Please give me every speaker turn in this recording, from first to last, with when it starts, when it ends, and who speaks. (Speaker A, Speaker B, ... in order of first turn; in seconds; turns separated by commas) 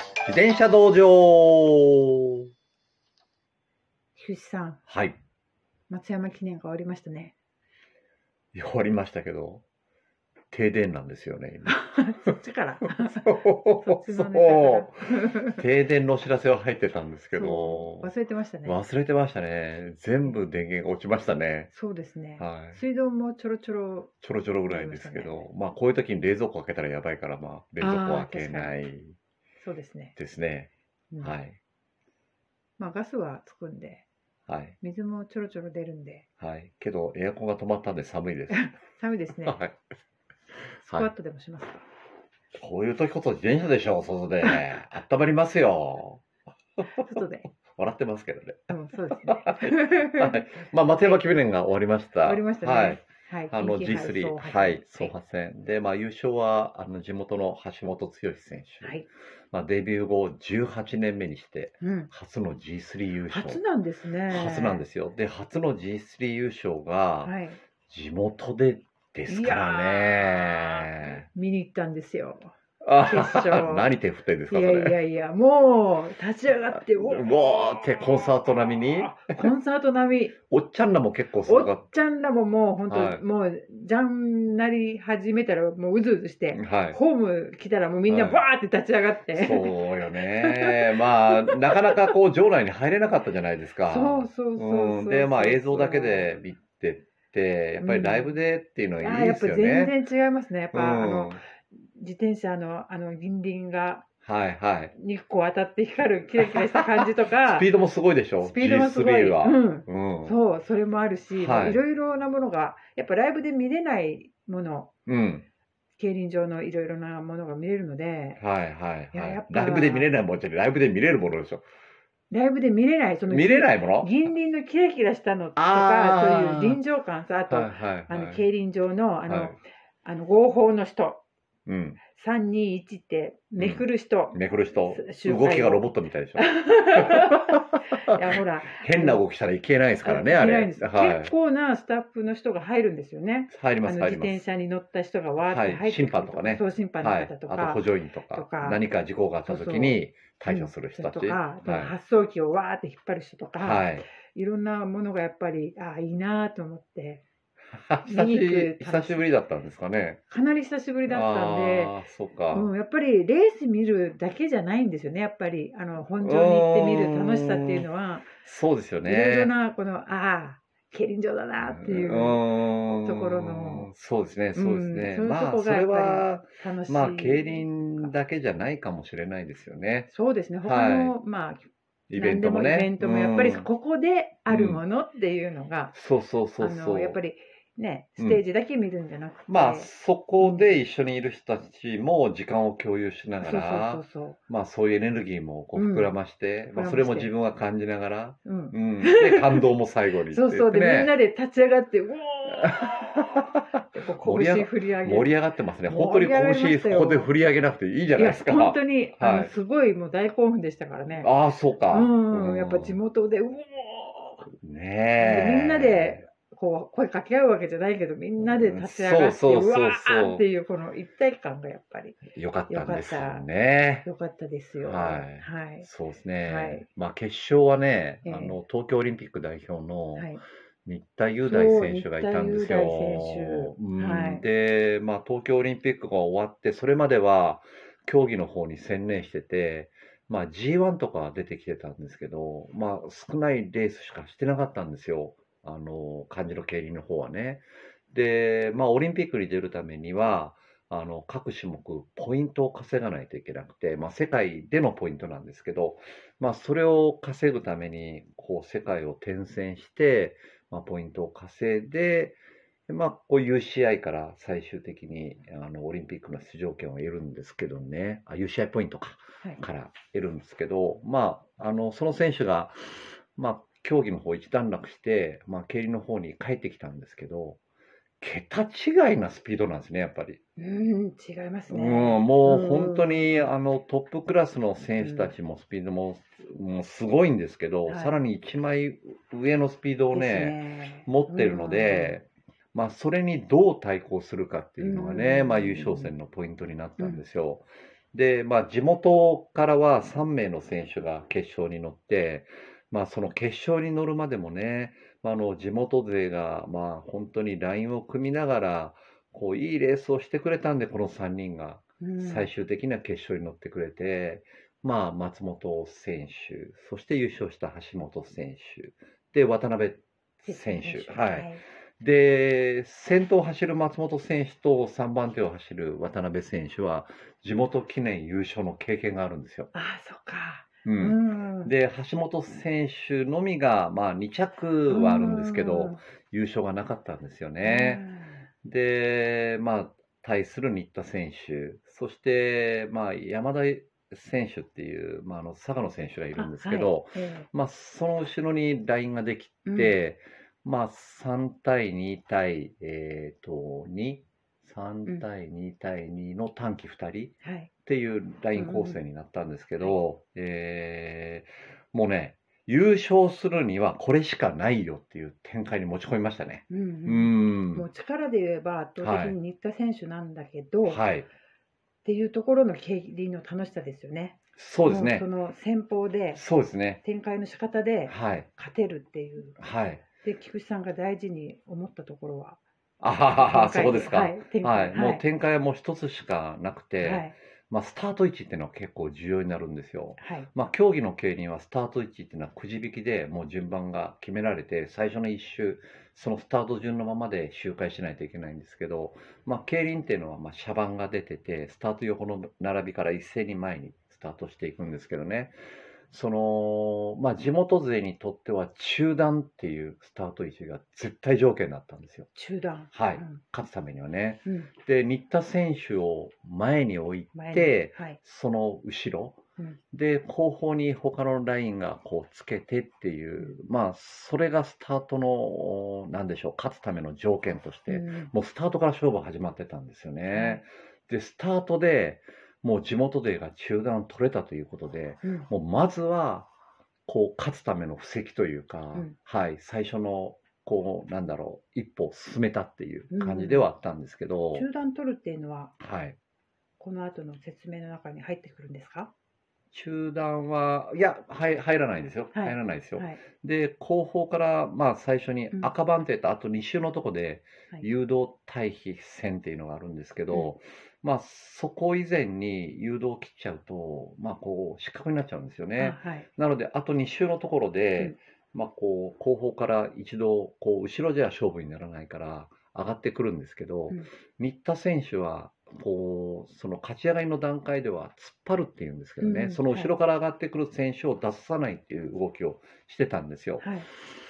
Speaker A: 0.2-2.5, Speaker B: 4.2-4.8, Speaker A: 4.9-5.2, Speaker B: 5.9-7.3, Speaker A: 8.5-9.6, Speaker A: 10.5-12.3, Speaker B: 11.7-15.6, Speaker A: 12.9-18.1, Speaker B: 17.3-18.8, Speaker A: 18.6-21.7, Speaker B: 21.7-24.1, Speaker A: 22.4-22.8, Speaker A: 24.2-29.1, Speaker B: 24.6-25.5, Speaker B: 27.8-28.7, Speaker B: 29.6-30.1, Speaker A: 30.1-30.7, Speaker A: 31.2-31.6, Speaker B: 32.8-34.0, Speaker A: 34.5-34.8, Speaker B: 34.8-36.2, Speaker A: 36.4-38.7, Speaker B: 38.5-39.6, Speaker A: 39.5-39.8, Speaker A: 40.8-41.1, Speaker B: 40.9-41.8, Speaker A: 42.5-46.2, Speaker B: 47.0-47.5, Speaker A: 47.7-48.7, Speaker B: 48.7-51.2, Speaker A: 49.3-63.6, Speaker B: 52.2-55.1, Speaker B: 61.8-62.1, Speaker B: 63.3-64.8, Speaker A: 64.3-67.3, Speaker B: 67.2-67.6, Speaker A: 67.9-71.2, Speaker B: 69.3-73.9, Speaker A: 72.8-75.0, Speaker B: 74.5-78.3, Speaker A: 76.7-79.3, Speaker B: 79.0-80.3, Speaker A: 80.5-81.8, Speaker B: 81.5-92.1, Speaker A: 82.9-83.2, Speaker A: 86.5-87.0, Speaker A: 88.1-88.4, Speaker A: 89.3-99.9, Speaker B: 93.8-96.3, Speaker B: 97.8-98.3, Speaker B: 99.0-104.0, Speaker A: 100.7-101.4, Speaker A: 104.2-104.9, Speaker B: 104.9-107.7, Speaker A: 106.4-110.3, Speaker B: 108.4-114.9, Speaker A: 111.3-111.8, Speaker A: 115.1-115.4, Speaker B: 116.0-118.4, Speaker A: 118.4-121.7, Speaker B: 119.1-120.1, Speaker B: 122.3-131.2, Speaker A: 123.3-124.1, Speaker A: 125.5-126.8, Speaker A: 127.5-128.4, Speaker A: 129.3-129.6, Speaker A: 131.7-132.0, Speaker B: 132.1-139.2, Speaker A: 133.6-137.6, Speaker A: 138.7-141.3, Speaker B: 140.0-148.8, Speaker A: 143.5-144.4, Speaker A: 145.4-151.9, Speaker B: 149.4-157.2, Speaker A: 153.6-154.0, Speaker A: 157.7-160.2, Speaker B: 158.0-159.2, Speaker B: 160.3-161.9, Speaker A: 161.1-162.7, Speaker B: 162.5-168.3, Speaker A: 166.2-167.8, Speaker A: 168.4-169.5, Speaker B: 169.0-173.9, Speaker A: 171.6-180.1, Speaker B: 174.5-178.1, Speaker B: 180.1-185.9, Speaker A: 180.6-181.2, Speaker A: 182.1-183.7, Speaker A: 184.5-184.8, Speaker A: 185.9-187.2, Speaker B: 186.6-190.7, Speaker A: 189.5-201.1, Speaker B: 193.4-194.4, Speaker B: 195.7-196.2, Speaker B: 196.7-197.3, Speaker B: 198.4-199.7, Speaker B: 200.3-205.3, Speaker A: 202.7-203.6, Speaker A: 204.2-209.5, Speaker B: 205.8-207.3, Speaker B: 208.1-211.3, Speaker A: 211.2-213.0, Speaker B: 211.9-214.5, Speaker A: 214.6-216.2, Speaker B: 215.2-223.4, Speaker A: 218.4-220.4, Speaker A: 222.3-224.1, Speaker B: 224.0-225.9, Speaker A: 224.8-277.6, Speaker B: 226.4-226.8, Speaker B: 228.2-228.6, Speaker B: 230.1-230.4, Speaker B: 231.4-234.4, Speaker A: 278.2-280.4, Speaker B: 280.6-283.5, Speaker A: 281.7-329.7, Speaker B: 285.0-285.3, Speaker B: 287.9-288.1, Speaker B: 290.1-292.2, Speaker B: 294.8-296.1, Speaker B: 312.0-312.5, Speaker B: 320.4-321.6, Speaker B: 329.7-331.7, Speaker A: 330.8-338.0, Speaker B: 334.9-336.0, Speaker B: 337.6-338.4, Speaker A: 338.6-367.9, Speaker B: 346.4-347.5, Speaker B: 349.6-349.9, Speaker B: 357.4-357.7, Speaker B: 358.5-359.0, Speaker B: 366.7-371.0, Speaker A: 369.0-369.3, Speaker A: 370.8-371.3, Speaker B: 372.0-376.4, Speaker A: 374.6-375.3, Speaker A: 376.3-377.0, Speaker B: 377.0-379.6, Speaker A: 378.1-378.5, Speaker A: 379.6-380.0, Speaker B: 380.1-382.6, Speaker A: 383.0-405.5, Speaker B: 383.3-385.2, Speaker B: 387.0-387.3, Speaker B: 390.2-390.5, Speaker A: 406.1-412.3, Speaker B: 412.3-413.4, Speaker A: 412.9-419.4, Speaker B: 417.3-418.2, Speaker A: 419.9-436.5, Speaker B: 427.9-428.3, Speaker B: 430.3-430.6, Speaker B: 435.2-435.5, Speaker A: 437.1-444.7, Speaker B: 443.1-443.7, Speaker B: 444.5-445.8, Speaker A: 445.8-446.2, Speaker B: 446.8-449.1, Speaker A: 449.7-483.7, Speaker B: 452.3-453.2, Speaker B: 465.8-466.3, Speaker B: 479.2-479.9, Speaker B: 483.6-483.9